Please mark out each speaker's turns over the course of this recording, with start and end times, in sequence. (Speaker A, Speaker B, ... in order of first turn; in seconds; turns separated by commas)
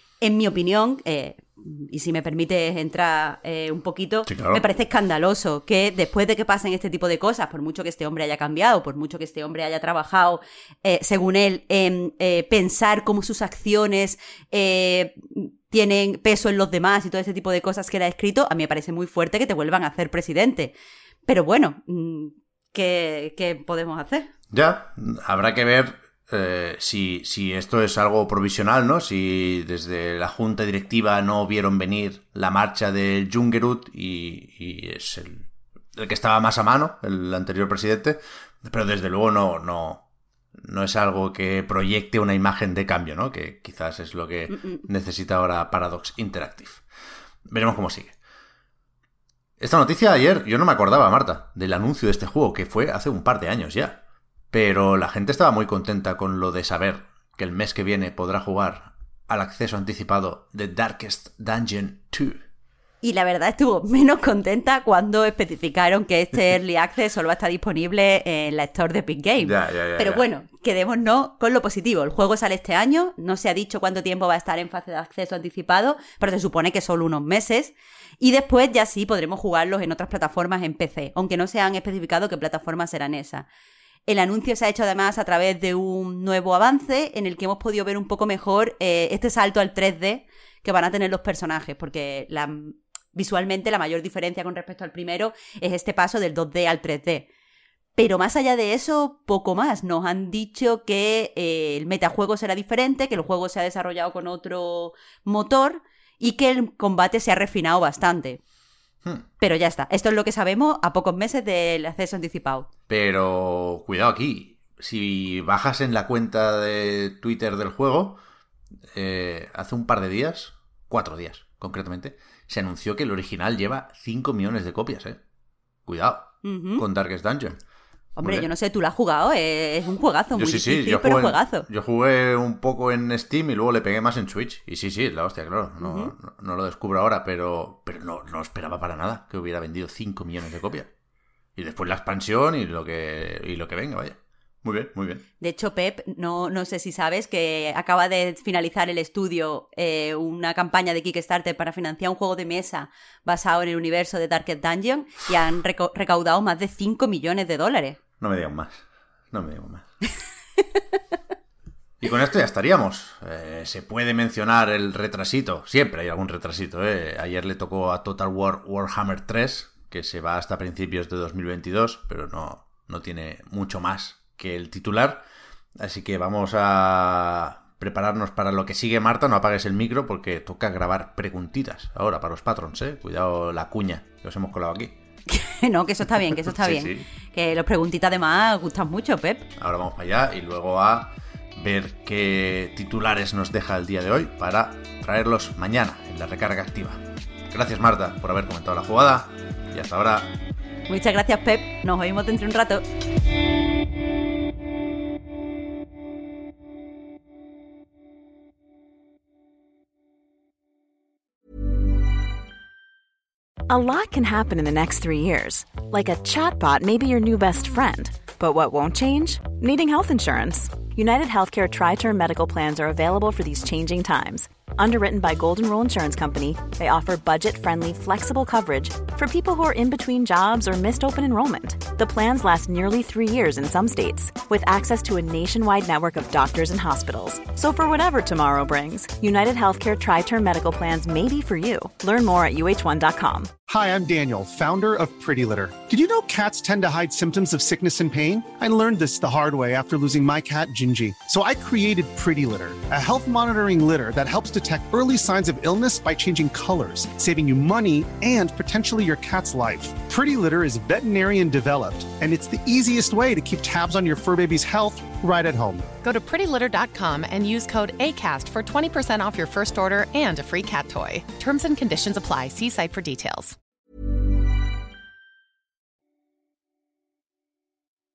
Speaker A: 0.2-24.3, Speaker B: 4.2-4.6, Speaker B: 24.5-35.4, Speaker B: 36.0-40.0, Speaker B: 40.6-46.8, Speaker B: 47.5-48.1, Speaker B: 49.6-54.0, Speaker B: 54.5-62.4, Speaker A: 63.0-83.5, Speaker B: 69.4-70.2, Speaker A: 84.1-97.3, Speaker A: 98.0-108.4, Speaker A: 109.4-112.7, Speaker B: 112.9-118.2, Speaker B: 118.9-125.2, Speaker B: 125.8-127.6, Speaker A: 126.4-126.8, Speaker A: 128.2-131.7, Speaker B: 128.2-128.5, Speaker B: 130.3-140.9, Speaker A: 135.8-136.1, Speaker B: 141.6-145.2, Speaker A: 145.4-158.0, Speaker B: 158.2-159.8, Speaker B: 162.0-175.2, Speaker B: 175.8-184.9, Speaker A: 185.3-189.5, Speaker B: 186.6-187.1, Speaker B: 189.6-200.3, Speaker A: 200.9-202.8, Speaker C: 213.7-243.5, Speaker D: 243.7-265.9, Speaker E: 266.0-273.5